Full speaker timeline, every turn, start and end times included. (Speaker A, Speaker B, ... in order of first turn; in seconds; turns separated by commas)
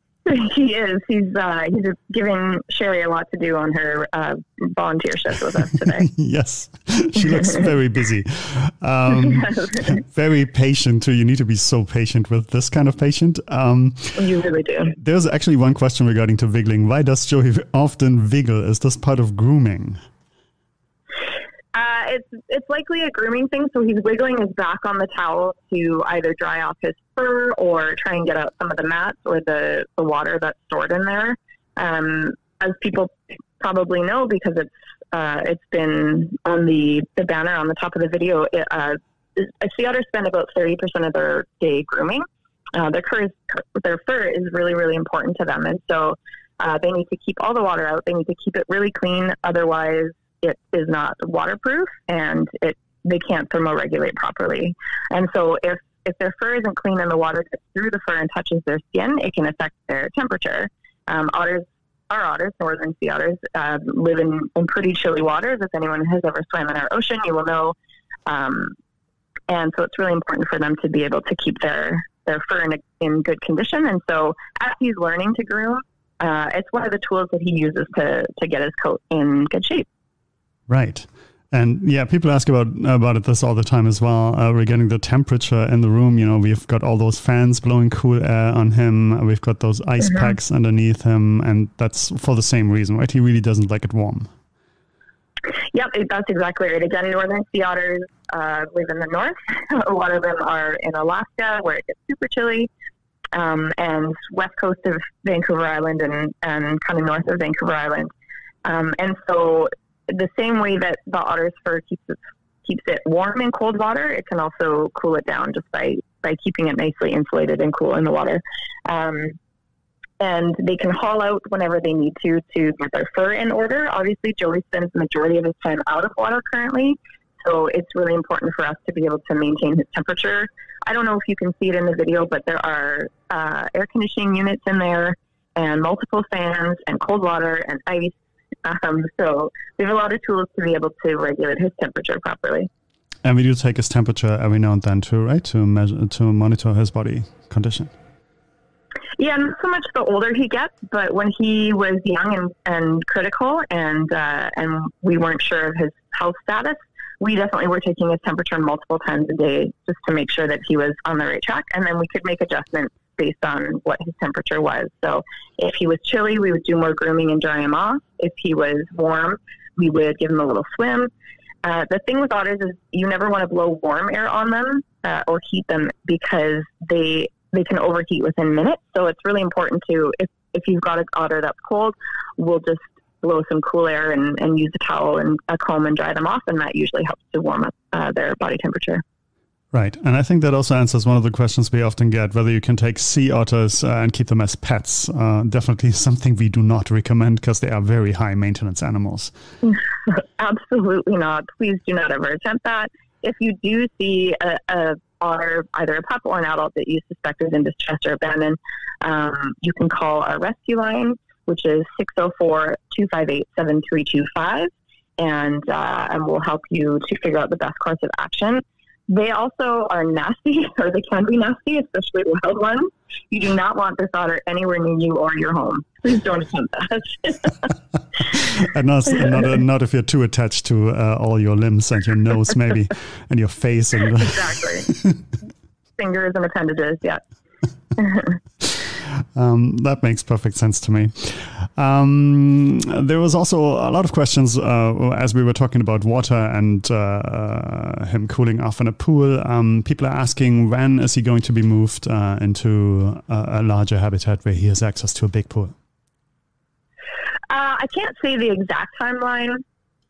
Speaker A: 0.2-6.1, Speaker B: 6.0-14.2, Speaker A: 7.4-7.6, Speaker A: 9.1-9.9, Speaker A: 14.2-14.9, Speaker B: 14.9-20.0, Speaker A: 21.7-67.8, Speaker A: 68.3-68.7, Speaker A: 69.5-79.8, Speaker B: 80.7-94.3, Speaker A: 90.0-90.3, Speaker A: 95.7-102.7, Speaker A: 103.3-108.1, Speaker A: 108.6-119.3, Speaker A: 120.2-142.7, Speaker B: 143.2-147.9, Speaker A: 149.2-171.1, Speaker A: 171.6-189.0, Speaker B: 189.7-199.3, Speaker A: 199.6-227.7, Speaker B: 228.3-235.2, Speaker A: 234.2-234.9, Speaker A: 236.0-237.2, Speaker A: 238.0-238.3, Speaker B: 238.7-255.7, Speaker A: 257.5-259.6